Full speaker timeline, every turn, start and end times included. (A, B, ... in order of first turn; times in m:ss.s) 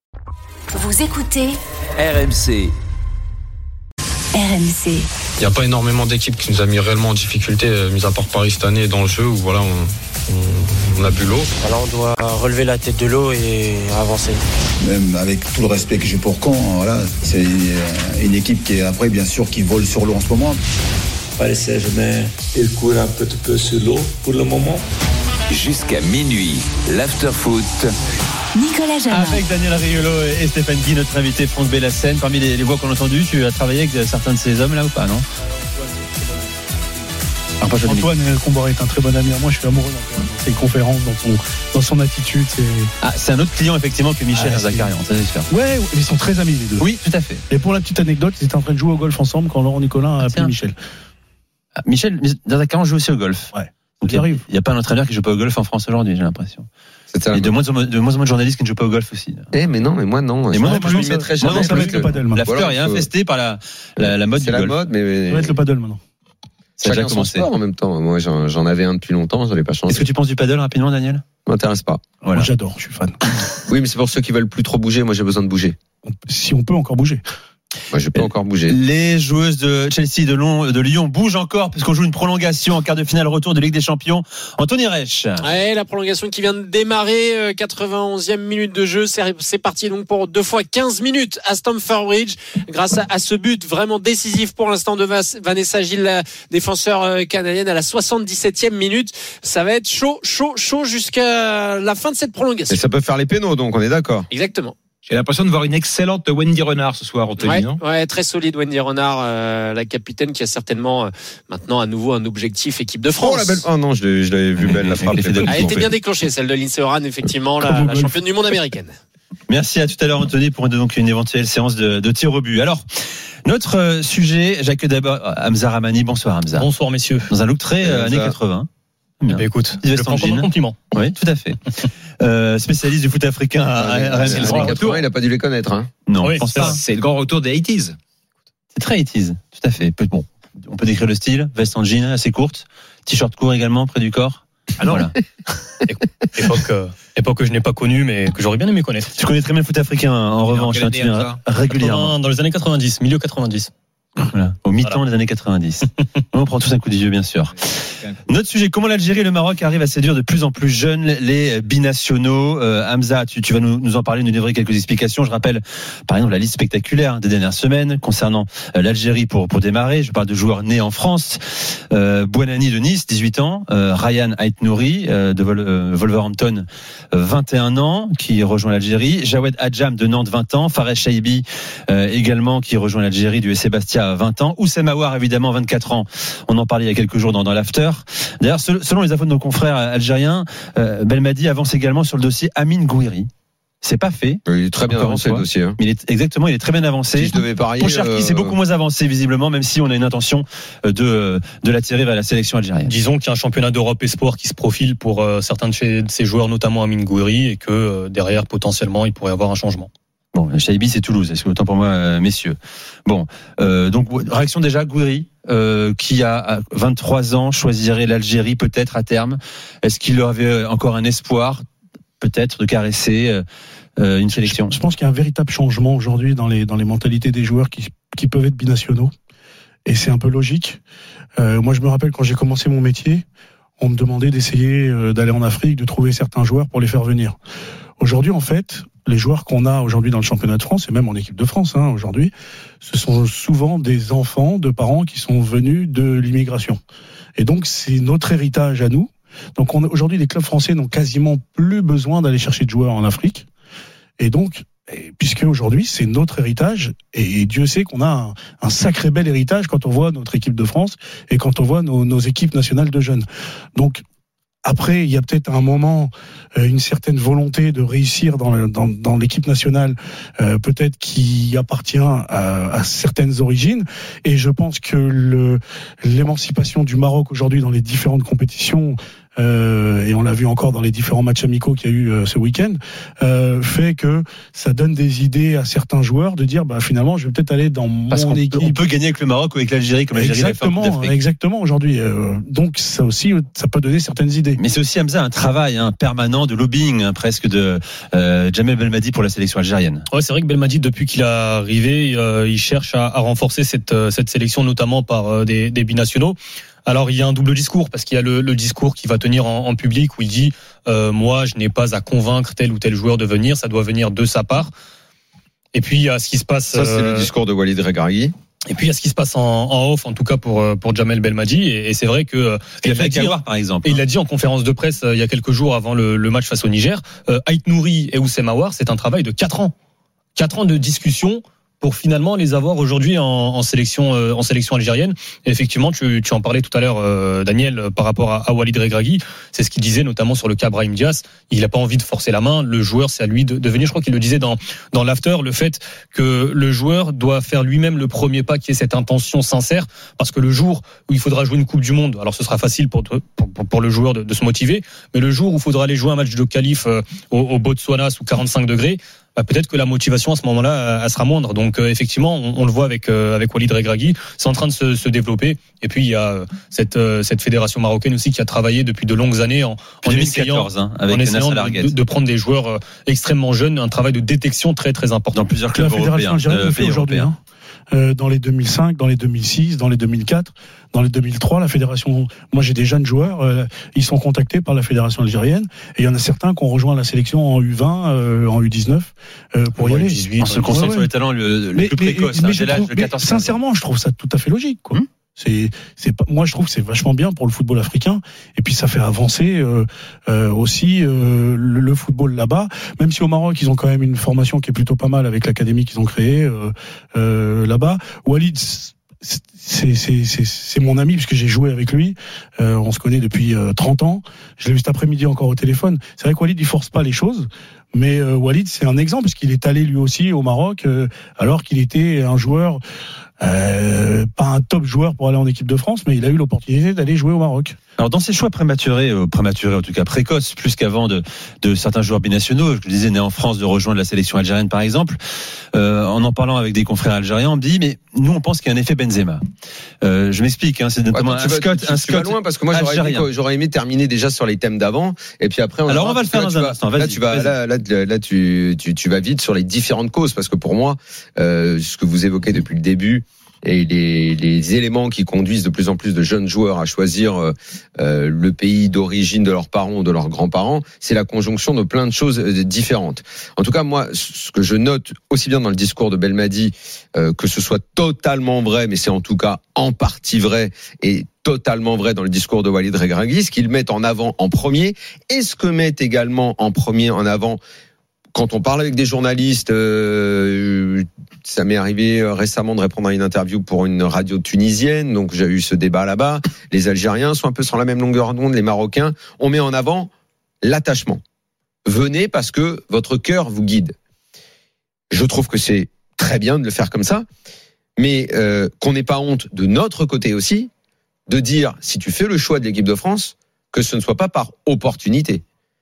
0:00.7-0:01.6 A
0:02.0-0:02.7 B
0:04.4-0:05.0 A
0:05.4-0:11.4 C
0:11.6-0:14.4 D
0:14.8-0:20.6 E
0:21.4-0:24.8 F
0:25.5-0:27.9 B
0:28.6-0:29.4 A
0:29.1-0:35.2 G
0:37.6-0:38.1 G
0:37.8-0:42.9 H
0:43.0-0:45.5 G
0:44.3-0:44.9 H
0:45.5-0:46.9 H
0:46.8-0:47.4 G
0:47.5-0:50.8 H
0:50.2-0:50.5 G
0:51.8-0:53.5 G
0:53.5-0:54.4 H
0:54.0-0:56.7 G
0:57.1-0:57.5 I
0:57.3-0:59.5 G
0:59.5-1:03.1 I
1:00.5-1:01.8 G
1:00.6-1:02.5 H
1:02.3-1:04.8 G
1:04.0-1:05.6 I
1:05.3-1:06.0 H
1:06.8-1:07.5 G
1:06.8-1:10.1 I
1:09.9-1:11.2 G
1:11.4-1:12.0 I
1:12.2-1:12.5 G
1:12.3-1:13.2 H
1:13.7-1:15.8 I
1:16.1-1:17.2 H
1:17.9-1:18.8 I
1:18.2-1:25.4 G
1:25.4-1:42.8 J
1:42.7-1:44.3 I
1:44.3-1:44.7 J
1:45.0-1:47.8 K
1:47.4-1:53.6 J
1:53.1-1:55.8 I
1:54.6-1:55.9 G
1:55.5-1:58.9 J
1:57.6-1:58.2 H
1:59.5-2:02.8 G
2:03.4-2:06.7 G
2:06.6-2:07.3 L
2:07.3-2:08.7 G
2:07.8-2:08.4 I
2:09.2-2:14.7 G
2:09.3-2:10.8 L
2:13.7-2:15.9 I
2:14.3-2:15.0 K
2:16.1-2:16.8 G
2:16.2-2:16.7 L
2:16.5-2:18.0 K
2:18.7-2:25.1 G
2:24.8-2:25.1 K
2:25.8-2:29.1 L
2:29.2-2:32.1 G
2:30.5-2:31.4 K
2:31.8-2:33.7 L
2:34.2-2:37.5 G
2:37.7-2:38.2 K
2:38.3-2:51.4 G
2:51.9-3:13.3 G
3:13.8-3:22.9 G
3:14.4-3:15.8 I
3:17.1-3:18.6 I
3:22.8-3:29.9 L
3:30.3-3:41.6 G
3:42.2-3:43.4 G
3:44.0-3:44.8 G
3:44.3-3:49.1 H
3:49.8-3:50.8 H
3:51.4-3:53.2 H
3:53.8-3:57.4 H
3:58.0-4:02.3 H
4:02.8-4:06.8 H
4:07.4-4:13.4 H
4:14.2-4:23.2 H
4:23.8-4:24.0 H
4:24.6-4:48.8 H
4:48.1-4:51.2 G
4:50.1-4:54.6 H
4:54.6-5:00.0 G
5:00.1-5:14.7 L
5:15.7-5:17.3 L
5:16.7-5:18.3 I
5:18.7-5:29.7 L
5:22.8-5:24.0 G
5:30.4-6:15.4 L
6:10.0-6:11.9 G
6:15.3-6:17.3 G
6:15.7-6:17.4 H
6:17.9-6:31.1 H
6:29.8-6:30.9 L
6:30.4-6:33.5 G
6:31.7-7:02.8 H
7:03.4-7:07.8 H
7:08.0-7:15.2 G
7:15.7-7:19.4 G
7:20.0-7:23.3 G
7:21.1-7:57.6 I
7:25.9-7:27.5 G
7:58.3-8:10.1 I
8:10.6-8:11.2 I
8:11.8-8:13.9 I
8:15.1-8:17.2 I
8:18.0-8:20.7 I
8:21.3-8:25.4 I